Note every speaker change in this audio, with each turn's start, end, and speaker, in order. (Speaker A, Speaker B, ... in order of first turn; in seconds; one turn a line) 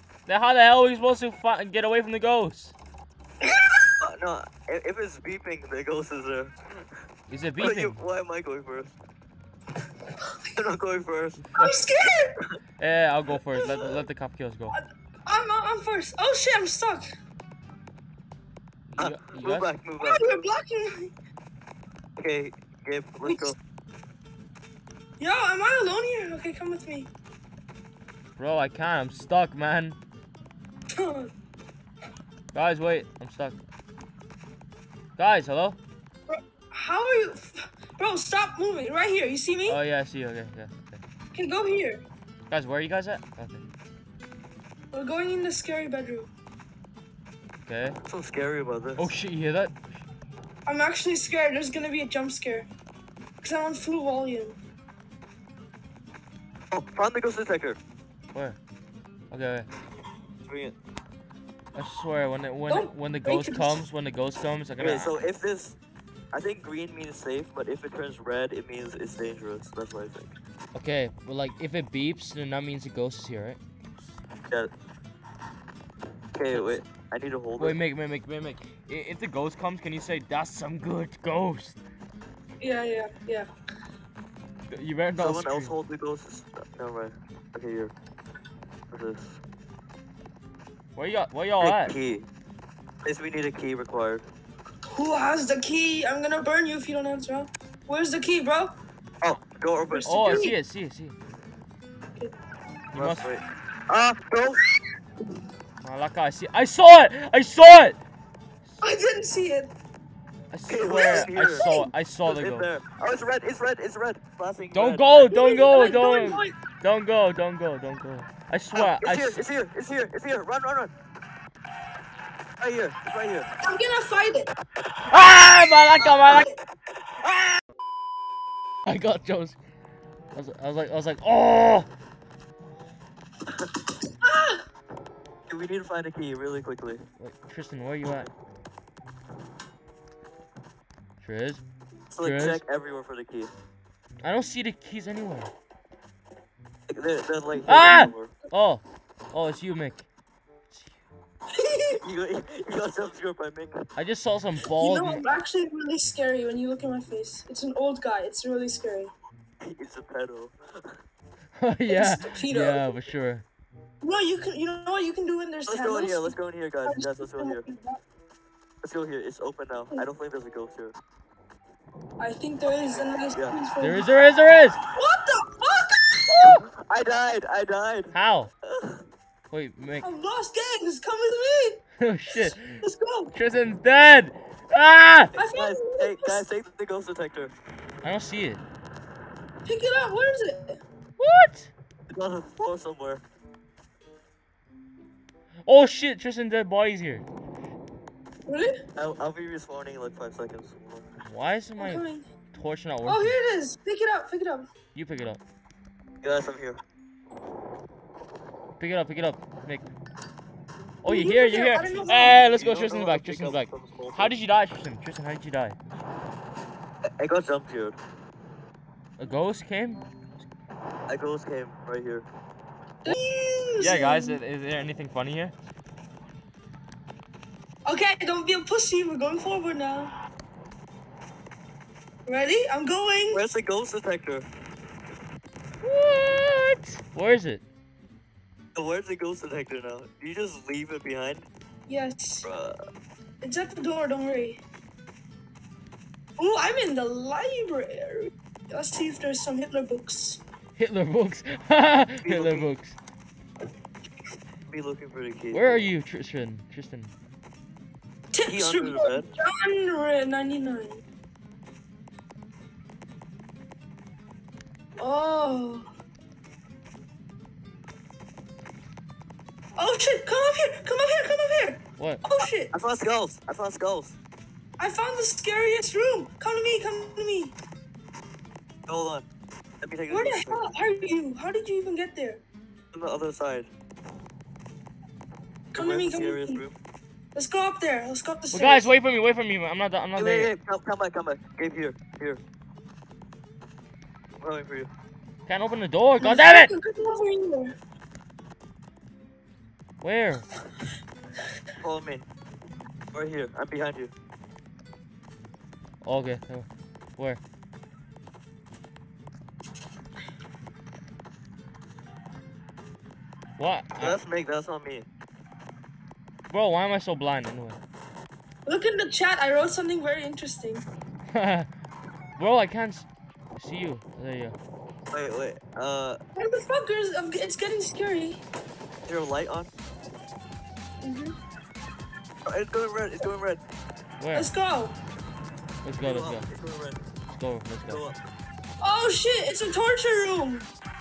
Speaker A: 0.3-2.7
Speaker B: 3.4-3.8
Speaker C: 4.0-6.8
Speaker A: 7.3-8.0
Speaker C: 7.6-8.9
Speaker C: 10.5-11.4
Speaker B: 11.5-12.3
Speaker A: 12.8-14.8
Speaker B: 13.5-13.8
Speaker B: 14.7-17.1
Speaker A: 18.9-19.7
Speaker C: 19.0-20.2
Speaker B: 20.0-21.1
Speaker C: 22.2-23.6
Speaker B: 25.2-27.1
Speaker A: 28.4-30.0
Speaker B: 30.9-31.3
Speaker A: 32.5-33.6
Speaker A: 35.2-35.8
Speaker B: 36.3-39.8
Speaker A: 39.7-41.0
Speaker B: 41.3-42.0
Speaker A: 42.5-43.6
Speaker B: 44.9-46.3
Speaker A: 47.6-48.0
Speaker C: 48.0-49.1
Speaker A: 49.0-49.8
Speaker B: 50.6-52.7
Speaker B: 53.4-54.6
Speaker C: 56.7-57.8
Speaker A: 58.3-58.6
Speaker A: 59.3-59.7
Speaker C: 60.4-60.8
Speaker A: 61.7-65.2
Speaker B: 62.7-63.8
Speaker C: 64.8-65.8
Speaker C: 66.3-70.3
Speaker A: 70.7-73.6
Speaker C: 76.3-77.8
Speaker A: 76.5-76.8
Speaker A: 77.6-81.8
Speaker B: 82.6-83.5
Speaker A: 84.7-85.7
Speaker C: 85.2-87.9
Speaker C: 88.9-89.4
Speaker A: 90.9-91.9
Speaker C: 91.6-92.3
Speaker C: 93.0-94.2
Speaker B: 94.9-98.7
Speaker C: 99.2-100.5
Speaker B: 99.9-100.5
Speaker A: 100.0-101.2
Speaker A: 102.9-103.3
Speaker C: 102.9-104.6
Speaker A: 105.8-108.0
Speaker B: 108.8-109.7
Speaker A: 110.5-112.7
Speaker C: 110.7-111.7
Speaker B: 110.8-111.9
Speaker C: 112.2-115.0
Speaker A: 114.7-119.4
Speaker B: 115.2-116.5
Speaker C: 118.7-120.9
Speaker C: 122.6-123.5
Speaker B: 123.6-124.5
Speaker A: 125.1-126.5
Speaker B: 126.2-126.5
Speaker A: 128.8-129.6
Speaker A: 130.3-131.9
Speaker B: 134.2-134.6
Speaker C: 135.5-137.0
Speaker A: 137.2-138.3
Speaker A: 141.2-141.6
Speaker C: 142.1-143.5
Speaker A: 142.2-142.6
Speaker A: 144.2-145.5
Speaker C: 146.9-148.3
Speaker A: 147.7-150.1
Speaker B: 151.5-151.9
Speaker C: 152.0-153.8
Speaker A: 153.9-155.2
Speaker B: 154.8-159.1
Speaker C: 159.6-160.6
Speaker A: 161.6-163.4
Speaker B: 161.9-162.9
Speaker B: 164.0-168.0
Speaker C: 165.7-167.6
Speaker C: 168.8-170.9
Speaker B: 172.2-174.1
Speaker C: 172.8-173.6
Speaker A: 173.8-174.8
Speaker B: 174.9-176.3
Speaker A: 176.3-176.6
Speaker C: 176.4-178.1
Speaker A: 178.1-178.5
Speaker C: 178.7-179.0
Speaker A: 179.5-180.1
Speaker B: 180.0-181.8
Speaker A: 182.0-182.8
Speaker B: 182.3-183.3
Speaker A: 183.3-185.3
Speaker B: 185.3-186.4
Speaker C: 185.4-187.5
Speaker A: 188.0-188.6
Speaker B: 189.7-190.8
Speaker A: 191.2-191.7
Speaker C: 192.1-193.2
Speaker A: 195.7-197.2
Speaker B: 198.5-198.8
Speaker C: 198.9-201.1
Speaker A: 201.2-203.3
Speaker B: 201.8-202.3
Speaker B: 203.0-204.7
Speaker A: 204.9-205.4
Speaker C: 206.2-206.8
Speaker A: 208.8-209.9
Speaker A: 211.0-215.8
Speaker B: 211.0-212.4
Speaker C: 212.4-214.3
Speaker C: 217.2-218.0
Speaker A: 219.2-220.0
Speaker C: 221.1-222.3
Speaker B: 223.0-224.4
Speaker A: 223.8-225.5
Speaker B: 227.8-230.1
Speaker B: 232.3-233.4
Speaker C: 233.3-234.5
Speaker A: 235.8-237.6
Speaker C: 238.7-241.5
Speaker B: 241.9-242.5
Speaker C: 242.4-242.7
Speaker B: 243.4-244.6
Speaker B: 246.4-250.4
Speaker A: 250.8-253.0
Speaker C: 252.2-252.7
Speaker C: 254.7-255.8
Speaker A: 255.5-257.1
Speaker B: 258.3-261.0
Speaker C: 258.5-259.3
Speaker B: 265.0-265.9
Speaker B: 269.8-272.7
Speaker C: 272.7-274.2
Speaker B: 274.8-277.5
Speaker C: 278.9-279.2
Speaker C: 279.8-280.6
Speaker B: 280.1-282.4
Speaker C: 282.9-283.7
Speaker C: 285.7-286.8
Speaker B: 285.7-286.6
Speaker B: 287.3-288.9
Speaker A: 288.5-290.5
Speaker C: 290.1-292.4
Speaker C: 294.4-294.9
Speaker A: 295.4-296.7
Speaker B: 296.2-297.8
Speaker A: 300.0-300.5
Speaker C: 301.8-302.2
Speaker C: 303.1-304.1
Speaker A: 306.0-307.4
Speaker A: 313.6-314.2
Speaker C: 314.0-315.1
Speaker A: 316.5-317.8
Speaker B: 318.6-320.8
Speaker A: 321.3-321.7
Speaker A: 322.4-324.6
Speaker C: 325.1-326.2
Speaker B: 326.4-328.4
Speaker C: 329.1-329.7
Speaker B: 331.0-331.4
Speaker C: 332.4-333.6
Speaker A: 334.2-334.5
Speaker B: 334.3-334.9
Speaker A: 335.8-336.5
Speaker C: 336.0-337.0
Speaker A: 337.3-338.0
Speaker C: 337.9-338.2
Speaker B: 338.8-340.6